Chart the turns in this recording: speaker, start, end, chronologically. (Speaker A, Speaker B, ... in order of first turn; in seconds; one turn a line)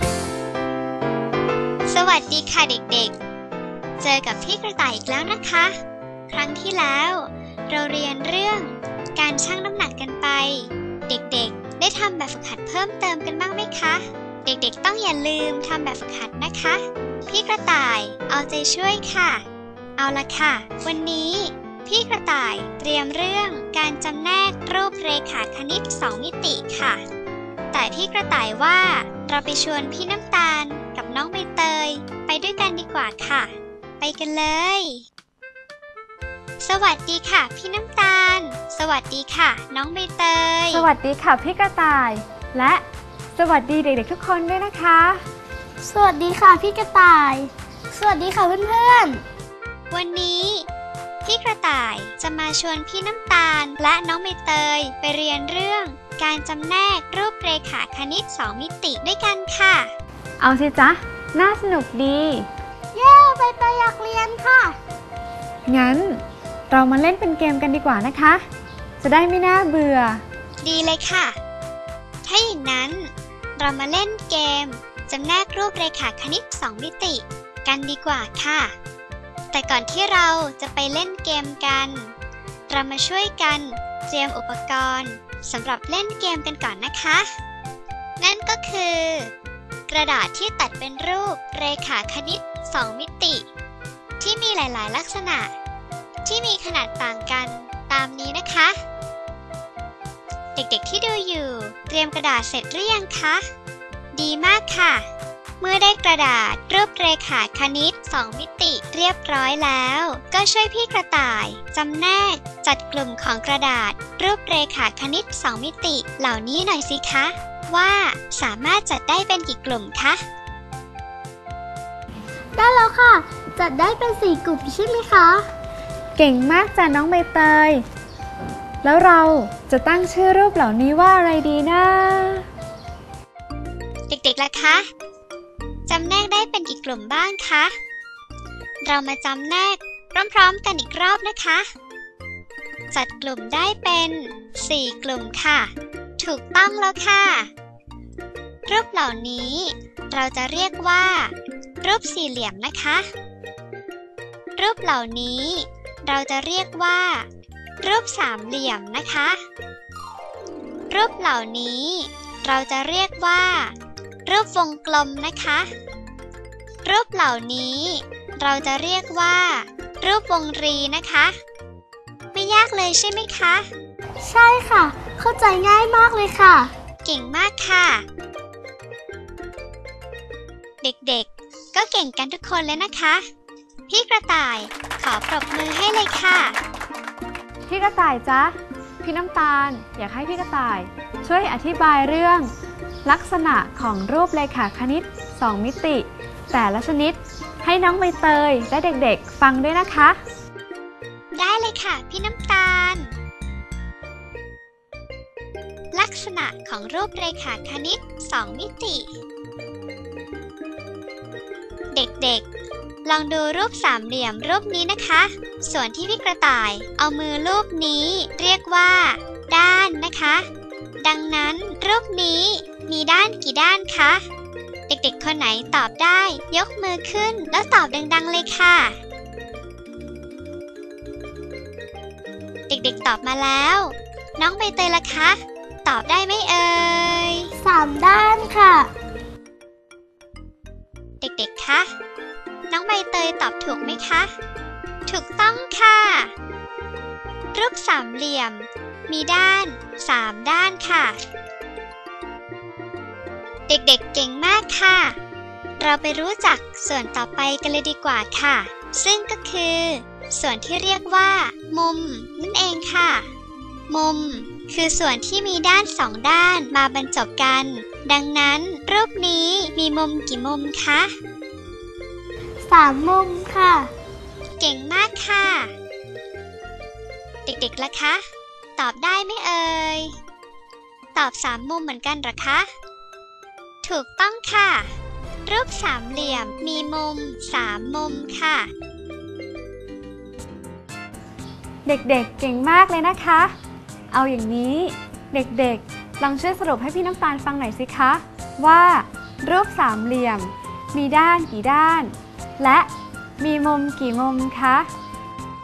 Speaker A: 1.9-3.1
Speaker A: 4.0-5.7
Speaker A: 6.3-19.4
Speaker A: 20.0-27.0
Speaker A: 27.7-35.0
Speaker A: 36.6-40.9
Speaker B: 40.7-42.8
Speaker B: 43.4-45.2
Speaker C: 45.8-49.2
Speaker A: 49.9-50.7
Speaker A: 51.2-59.9
Speaker B: 60.4-62.5
Speaker C: 62.9-64.8
Speaker B: 65.7-68.4
Speaker B: 69.0-70.2
Speaker A: 70.6-71.4
Speaker A: 72.2-78.7
Speaker A: 79.5-82.1
Speaker A: 82.7-87.3
Speaker A: 88.2-89.3
Speaker A: 89.9-93.5
Speaker A: 94.2-95.5
Speaker A: 96.2-98.8
Speaker A: 100.6-103.4
Speaker A: 104.1-105.1
Speaker A: 105.6-120.2
Speaker C: 122.6-125.4
Speaker B: 126.2-127.8
Speaker B: 128.8-132.4
Speaker A: 134.1-134.8
Speaker A: 135.9-137.7
Speaker A: 138.8-141.7
Speaker A: 142.9-147.5
Speaker A: 148.7-153.0
Speaker A: 154.6-157.3
Speaker A: 157.8-159.4
Speaker A: 160.9-163.8
Speaker A: 164.2-165.7
Speaker A: 166.8-171.3
Speaker A: 172.3-173.7
Speaker C: 174.2-176.7
Speaker A: 177.0-178.0
Speaker A: 180.8-183.2
Speaker A: 183.9-186.6
Speaker B: 187.7-192.5
Speaker B: 193.0-200.2
Speaker A: 201.3-203.1
Speaker A: 205.9-209.1
Speaker A: 211.9-212.5
Speaker A: 213.1-220.4
Speaker A: 221.0-224.2
Speaker A: 224.9-228.9
Speaker A: 232.7-237.5
Speaker C: 237.6-238.9
Speaker A: 241.2-241.9
Speaker A: 242.7-244.3
Speaker A: 245.1-246.3
Speaker A: 247.5-251.2
Speaker A: 253.7-255.2
Speaker A: 255.8-263.3
Speaker A: 263.9-271.1
Speaker C: 272.6-273.9
Speaker A: 274.6-275.7
Speaker A: 277.4-278.2
Speaker A: 278.8-280.1
Speaker A: 281.1-282.7
Speaker A: 283.8-284.9
Speaker A: 285.4-288.7
Speaker B: 291.9-293.5
Speaker B: 294.1-304.9